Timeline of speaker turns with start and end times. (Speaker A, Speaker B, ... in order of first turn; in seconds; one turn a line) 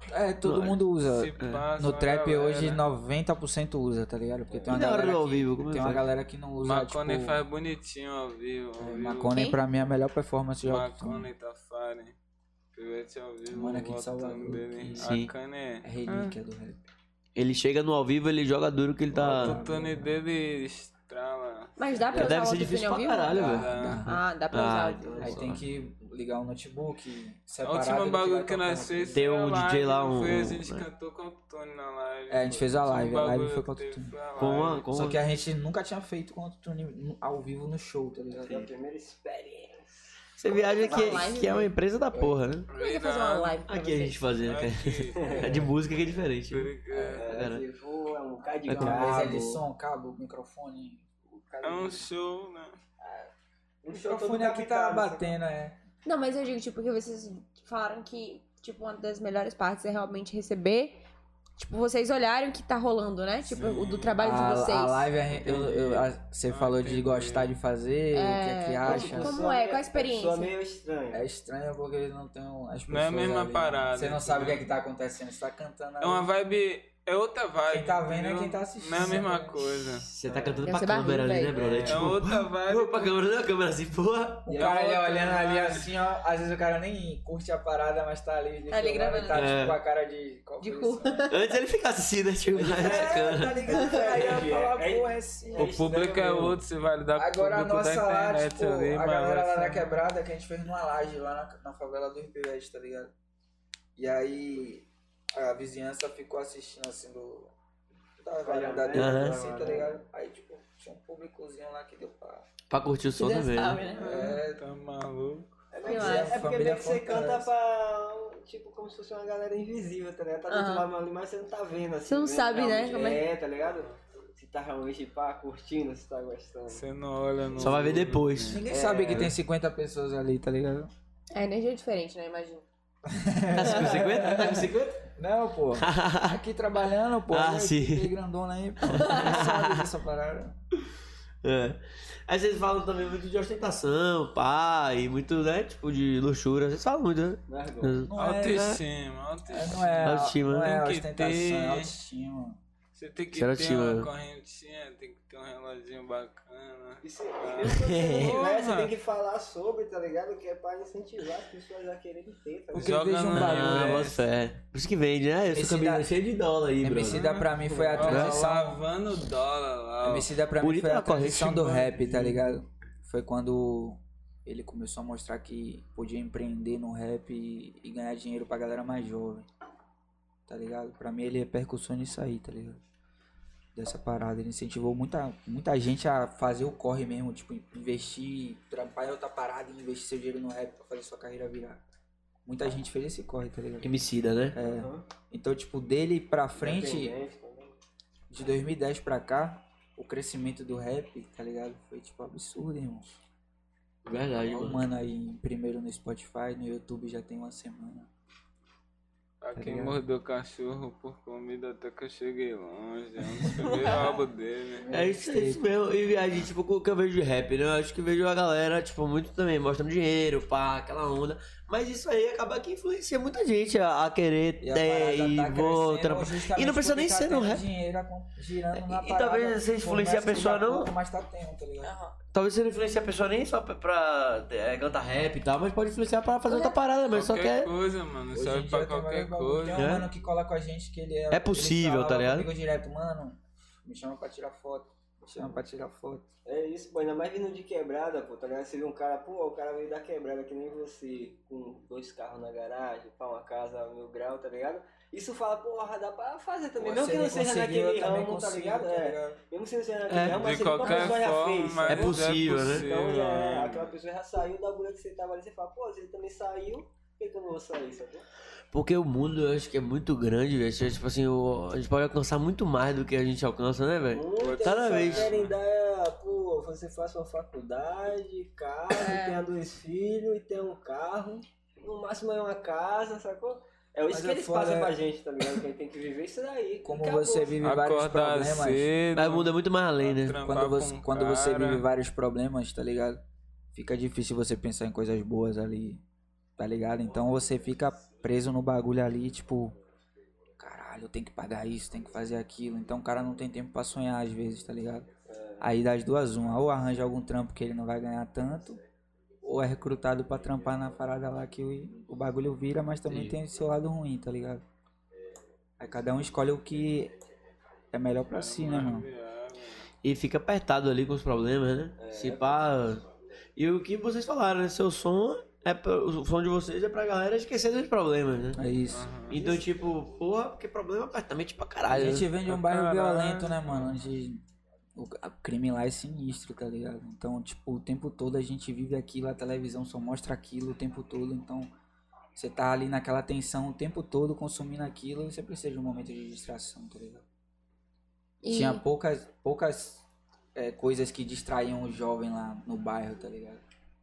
Speaker A: 0.1-7.4
Speaker B: 0.4-0.8
Speaker C: 1.0-2.8
Speaker B: 1.4-1.6
Speaker D: 4.5-4.8
Speaker B: 4.7-6.1
Speaker C: 6.6-9.5
Speaker A: 8.8-11.3
Speaker E: 9.3-9.6
Speaker C: 10.6-12.1
Speaker C: 12.7-16.4
Speaker A: 13.5-15.2
Speaker B: 15.0-15.3
Speaker A: 15.8-16.9
Speaker B: 17.4-19.6
Speaker A: 19.1-20.2
Speaker C: 19.2-22.3
Speaker E: 21.8-25.4
Speaker B: 22.1-25.6
Speaker A: 23.3-24.1
Speaker C: 23.4-24.1
Speaker A: 25.2-29.2
Speaker C: 27.6-34.9
Speaker B: 29.1-30.9
Speaker A: 32.3-38.7
Speaker B: 34.4-35.2
Speaker D: 38.3-39.9
Speaker B: 40.4-42.7
Speaker D: 40.5-41.3
Speaker E: 40.5-41.7
Speaker C: 42.7-43.6
Speaker E: 42.7-44.3
Speaker B: 43.7-47.6
Speaker C: 44.4-45.5
Speaker D: 45.2-45.7
Speaker C: 46.5-47.3
Speaker A: 46.9-47.2
Speaker D: 47.0-49.6
Speaker A: 48.6-51.0
Speaker B: 48.7-49.4
Speaker D: 51.3-52.1
Speaker C: 51.6-52.8
Speaker D: 53.0-53.3
Speaker D: 53.8-55.3
Speaker A: 53.9-55.8
Speaker E: 56.0-61.0
Speaker E: 61.6-65.1
Speaker C: 63.5-64.2
Speaker A: 64.2-69.4
Speaker C: 65.4-67.5
Speaker E: 68.1-70.5
Speaker D: 68.8-71.2
Speaker A: 71.1-76.3
Speaker C: 72.9-74.7
Speaker C: 76.0-80.1
Speaker A: 77.7-79.7
Speaker B: 80.0-84.5
Speaker D: 80.2-80.6
Speaker E: 80.6-81.6
Speaker D: 81.5-82.0
Speaker C: 81.8-83.2
Speaker A: 84.5-91.3
Speaker D: 84.5-85.1
Speaker C: 84.5-85.9
Speaker E: 88.7-89.5
Speaker B: 89.3-89.8
Speaker E: 90.6-91.5
Speaker B: 91.3-93.7
Speaker D: 92.5-96.6
Speaker A: 92.7-95.7
Speaker C: 95.5-100.0
Speaker A: 97.1-103.1
Speaker A: 104.0-107.5
Speaker A: 108.2-112.5
Speaker D: 108.4-110.0
Speaker B: 108.9-109.4
Speaker B: 112.7-113.8
Speaker E: 113.2-114.4
Speaker C: 114.0-115.5
Speaker A: 114.0-114.6
Speaker D: 115.7-126.8
Speaker A: 115.8-117.5
Speaker E: 115.8-116.3
Speaker E: 120.5-120.9
Speaker E: 122.0-123.2
Speaker C: 123.7-124.0
Speaker C: 126.7-128.6
Speaker B: 127.6-129.3
Speaker A: 128.5-130.9
Speaker D: 128.7-129.3
Speaker E: 131.3-132.6
Speaker A: 133.1-140.6
Speaker B: 133.5-135.1
Speaker B: 135.8-136.4
Speaker B: 137.3-138.1
Speaker B: 138.8-139.9
Speaker B: 141.4-148.8
Speaker D: 147.5-148.0
Speaker A: 148.1-148.8
Speaker C: 148.2-151.9
Speaker A: 149.5-152.6
Speaker B: 150.0-150.8
Speaker C: 152.9-158.9
Speaker B: 153.3-154.1
Speaker D: 157.0-163.1
Speaker B: 157.6-158.4
Speaker A: 162.7-164.2
Speaker C: 162.7-164.2
Speaker B: 163.3-167.3
Speaker A: 165.5-166.1
Speaker A: 166.8-168.8
Speaker C: 167.0-170.3
Speaker D: 167.7-168.1
Speaker B: 168.0-168.4
Speaker A: 170.0-179.5
Speaker B: 170.6-172.4
Speaker A: 180.5-182.8
Speaker A: 183.7-191.8
Speaker A: 192.4-193.9
Speaker B: 193.8-194.6
Speaker A: 194.5-197.2
Speaker D: 194.6-195.0
Speaker D: 196.6-197.8
Speaker A: 198.3-203.2
Speaker B: 204.0-204.8
Speaker A: 204.4-208.1
Speaker C: 209.4-214.9
Speaker A: 209.6-210.0
Speaker A: 213.3-214.1
Speaker A: 214.8-215.7
Speaker B: 214.9-227.6
Speaker A: 224.6-231.9
Speaker B: 228.7-230.9
Speaker E: 231.8-232.1
Speaker B: 232.3-237.7
Speaker E: 236.5-236.8
Speaker C: 237.1-239.9
Speaker A: 238.3-246.2
Speaker B: 239.7-240.1
Speaker B: 241.3-242.5
Speaker D: 246.4-268.2
Speaker A: 256.8-259.4
Speaker B: 260.1-261.2
Speaker C: 260.2-264.0
Speaker B: 261.9-262.9
Speaker B: 268.7-275.3
Speaker D: 274.1-287.6
Speaker C: 274.4-275.6
Speaker E: 278.9-279.4
Speaker A: 284.1-284.9
Speaker A: 286.8-288.9
Speaker C: 287.6-291.9
Speaker B: 289.1-290.4
Speaker A: 290.4-293.2
Speaker A: 293.7-296.0
Speaker A: 296.6-299.8
Speaker A: 300.6-305.1
Speaker D: 305.3-305.7
Speaker A: 305.6-308.8
Speaker A: 309.4-314.6
Speaker B: 313.1-313.4
Speaker A: 315.8-317.1
Speaker A: 317.9-319.1
Speaker C: 318.3-319.9
Speaker B: 320.0-323.0
Speaker D: 322.0-322.8
Speaker B: 323.6-328.6
Speaker A: 328.5-329.5
Speaker C: 328.9-329.5
Speaker B: 329.3-332.3
Speaker A: 331.9-334.4
Speaker C: 332.4-333.9
Speaker A: 334.9-341.7
Speaker A: 342.3-347.2
Speaker E: 348.4-348.8
Speaker A: 348.4-353.6